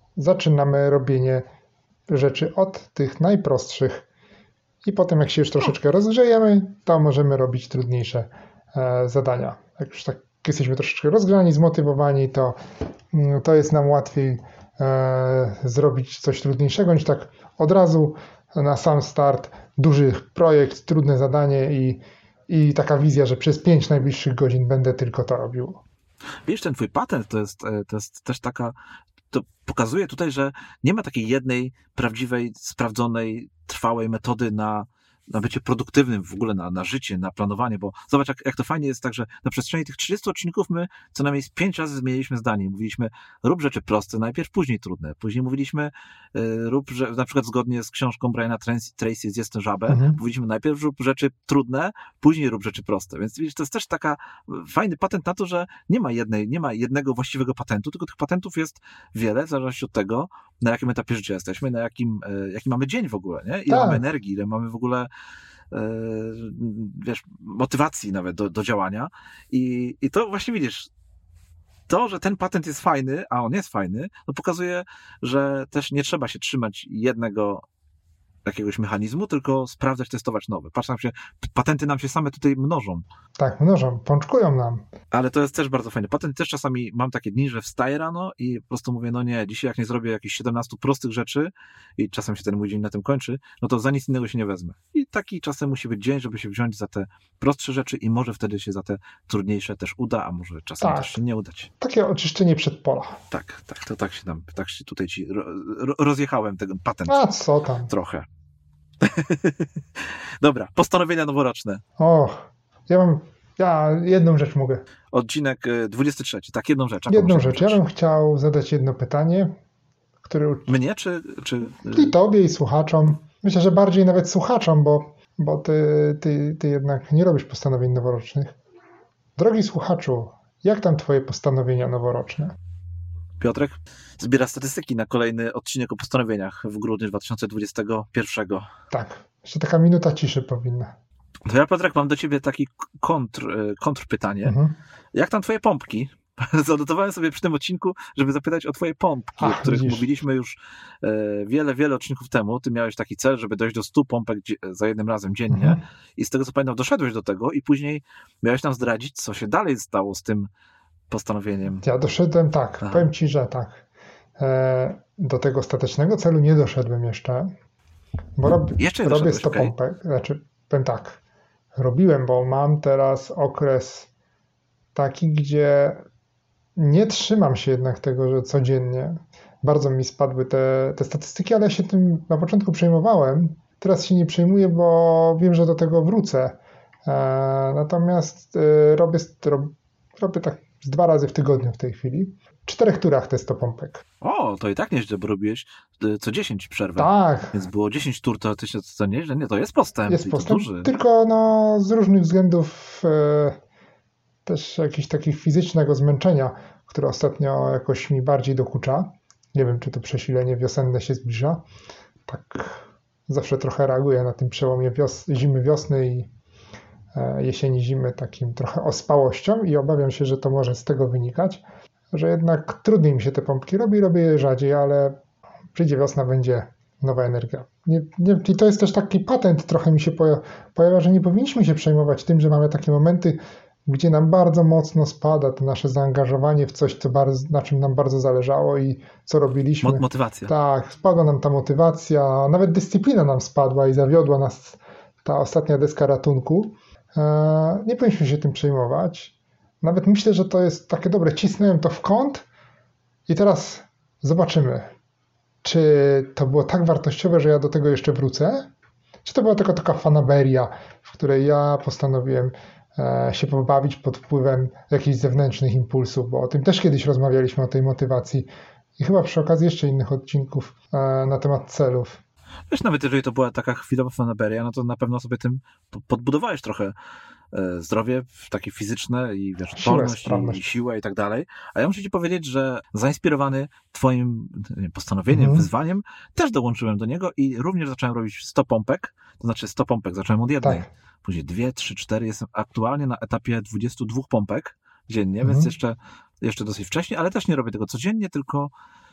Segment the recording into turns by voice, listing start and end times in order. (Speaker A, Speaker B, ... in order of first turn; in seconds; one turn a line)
Speaker A: 0.1-1.4
Speaker A: 2.1-4.0
Speaker A: 4.8-12.6
Speaker A: 13.1-25.8
Speaker B: 26.4-28.8
Speaker B: 29.3-65.1
Speaker A: 49.9-50.2
Speaker A: 63.7-64.0
Speaker B: 65.7-70.9
Speaker B: 71.9-77.6
Speaker B: 78.4-83.0
Speaker A: 83.4-84.8
Speaker B: 85.1-101.7
Speaker A: 100.8-101.2
Speaker A: 101.8-103.2
Speaker B: 103.3-107.2
Speaker A: 107.1-107.9
Speaker B: 107.9-108.2
Speaker B: 109.0-111.8
Speaker A: 112.0-114.8
Speaker B: 115.1-117.8
Speaker A: 117.1-119.5
Speaker A: 120.2-120.7
Speaker B: 120.7-122.1
Speaker A: 121.9-128.6
Speaker A: 129.4-132.5
Speaker B: 133.4-138.7
Speaker A: 138.9-140.9
Speaker B: 141.4-144.6
Speaker A: 144.4-144.7
Speaker B: 145.1-160.5
Speaker A: 149.4-150.1
Speaker A: 155.5-155.8
Speaker B: 161.1-161.8
Speaker A: 161.8-163.8
Speaker B: 162.8-163.1
Speaker A: 164.4-167.5
Speaker A: 168.4-171.2
Speaker B: 168.8-169.7
Speaker A: 171.8-174.1
Speaker A: 174.9-176.0
Speaker A: 176.8-194.0
Speaker B: 194.2-200.9
Speaker A: 197.0-197.6
Speaker A: 200.1-203.6
Speaker A: 204.4-211.6
Speaker A: 212.3-216.3
Speaker A: 217.1-225.2
Speaker A: 225.7-252.4
Speaker B: 239.8-240.5
Speaker A: 253.3-254.9
Speaker A: 255.6-258.7
Speaker A: 259.2-272.2
Speaker B: 272.7-276.9
Speaker B: 277.5-298.7
Speaker A: 279.7-280.6
Speaker A: 285.3-285.7
Speaker A: 290.6-290.9
Speaker A: 295.4-295.7